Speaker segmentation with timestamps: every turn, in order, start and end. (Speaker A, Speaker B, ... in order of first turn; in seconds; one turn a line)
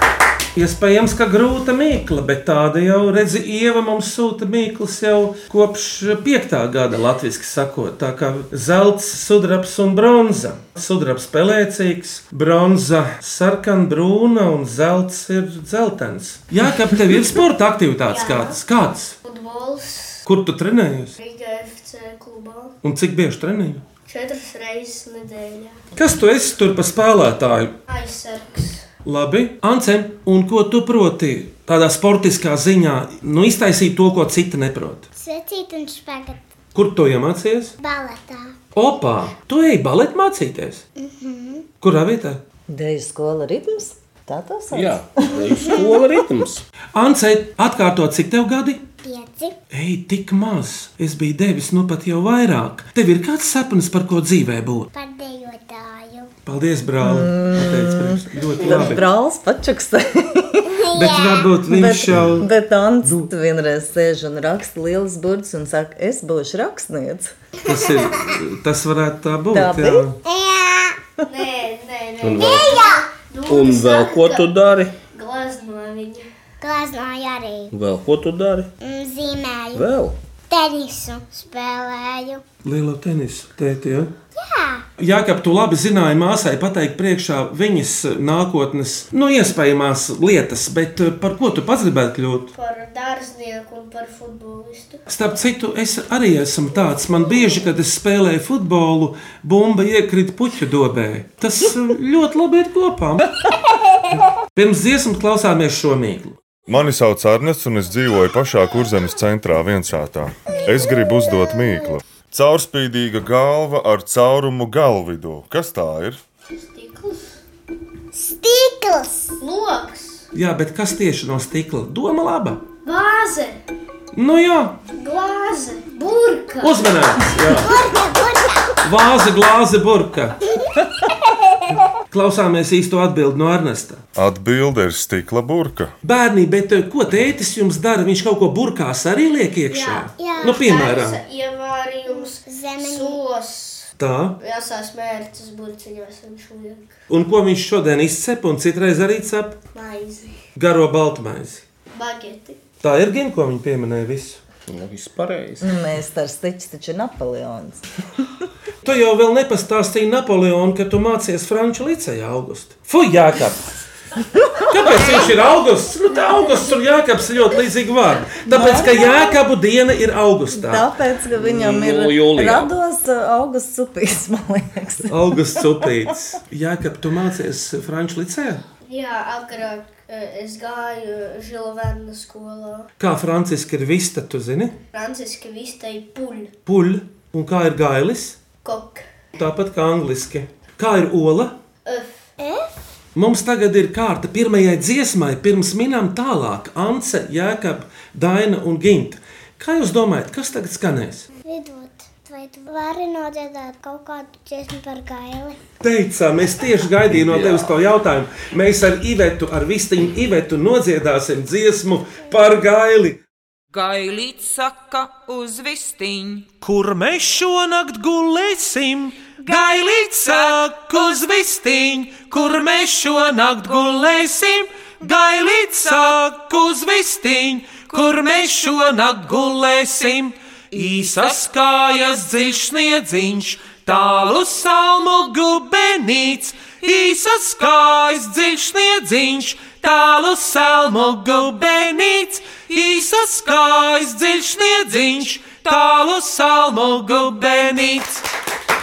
Speaker A: 0.5-19.2
Speaker B: 18.1-18.6
Speaker B: 19.2-20.2
Speaker A: 20.2-21.2
Speaker B: 21.2-22.8
Speaker A: 22.8-23.8
Speaker B: 24.1-25.8
Speaker A: 25.9-27.7
Speaker B: 27.9-28.8
Speaker A: 29.0-35.1
Speaker C: 35.1-36.5
Speaker A: 36.8-37.8
Speaker C: 37.8-38.6
Speaker A: 38.8-40.8
Speaker C: 41.0-41.6
Speaker A: 41.8-42.4
Speaker D: 42.7-46.1
Speaker E: 44.7-46.6
Speaker A: 46.9-48.8
Speaker C: 48.9-49.5
Speaker A: 49.7-54.9
Speaker C: 54.9-56.3
Speaker A: 56.4-59.0
Speaker D: 57.0-60.7
Speaker C: 60.7-61.5
Speaker A: 60.9-62.5
Speaker D: 61.7-67.3
Speaker A: 67.6-70.2
Speaker D: 69.5-70.0
Speaker C: 70.2-71.0
Speaker B: 71.2-74.5
Speaker E: 72.2-72.8
Speaker C: 72.4-73.1
Speaker E: 73.5-74.9
Speaker B: 75.1-76.2
Speaker C: 76.6-77.7
Speaker E: 77.7-78.7
Speaker C: 78.8-79.8
Speaker E: 79.7-80.2
Speaker C: 80.5-82.4
Speaker A: 82.6-84.1
Speaker C: 84.3-84.8
Speaker A: 85.0-92.5
Speaker B: 92.5-95.0
Speaker A: 95.1-103.3
Speaker A: 104.5-106.4
Speaker F: 106.7-116.2
Speaker C: 110.5-111.8
Speaker B: 116.6-117.4
Speaker C: 118.1-119.3
Speaker B: 119.4-120.2
Speaker A: 120.3-122.6
Speaker B: 122.8-123.6
Speaker A: 124.1-124.8
Speaker B: 125.0-127.1
Speaker A: 126.6-127.7
Speaker C: 127.5-128.8
Speaker A: 128.8-130.4
Speaker A: 132.1-134.0
Speaker F: 134.2-135.9
Speaker A: 136.0-141.2
Speaker B: 139.7-143.9
Speaker C: 140.2-140.7
Speaker C: 142.1-143.2
Speaker A: 144.0-144.4
Speaker B: 144.4-146.9
Speaker A: 147.1-149.6
Speaker B: 149.7-150.3
Speaker A: 150.6-151.6
Speaker B: 151.9-152.6
Speaker A: 152.8-154.4
Speaker E: 154.7-155.7
Speaker D: 155.6-157.8
Speaker A: 158.8-163.7
Speaker A: 164.7-170.9
Speaker D: 168.5-169.4
Speaker D: 170.5-176.1
Speaker E: 171.4-172.7
Speaker A: 175.1-178.6
Speaker B: 178.8-182.9
Speaker A: 183.0-184.8
Speaker B: 184.9-186.5
Speaker A: 186.7-188.4
Speaker B: 188.6-189.0
Speaker A: 189.4-191.5
Speaker B: 191.8-192.3
Speaker C: 192.4-192.7
Speaker A: 193.1-201.3
Speaker C: 201.4-205.6
Speaker A: 205.8-213.2
Speaker E: 207.1-207.7
Speaker G: 213.7-216.5
Speaker A: 216.6-248.2